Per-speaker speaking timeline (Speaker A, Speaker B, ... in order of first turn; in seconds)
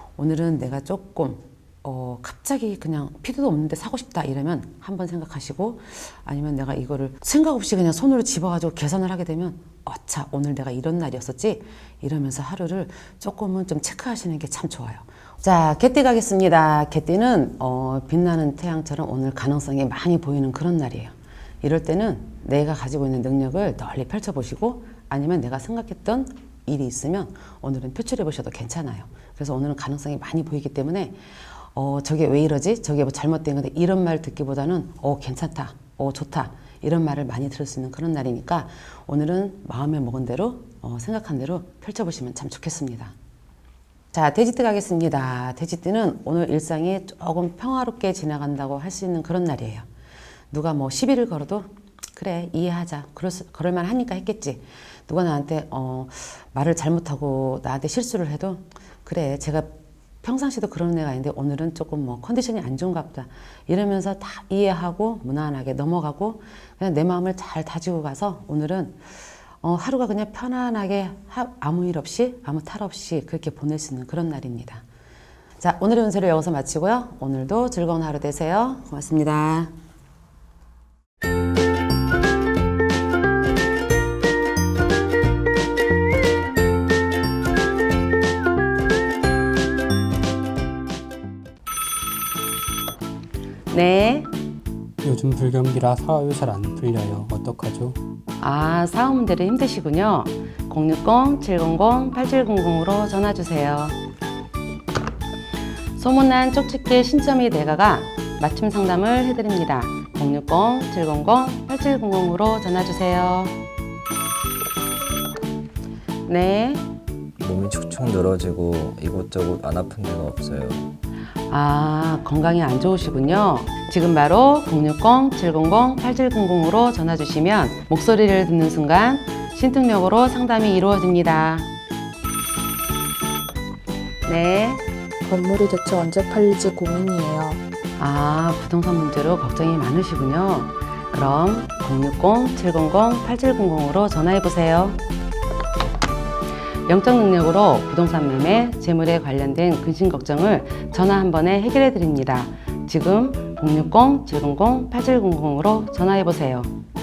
Speaker A: 0.2-31.2, 31.7-43.1, 44.1-49.8, 50.5-69.0, 69.6-74.8, 75.6-79.7, 93.7-94.3, 98.4-104.0, 106.0-113.6, 116.3-116.8, 121.5-131.7, 134.2-134.9, 138.0-145.0, 146.9-156.7
Speaker B: 95.0-98.0
Speaker C: 117.4-120.9
Speaker D: 135.2-137.6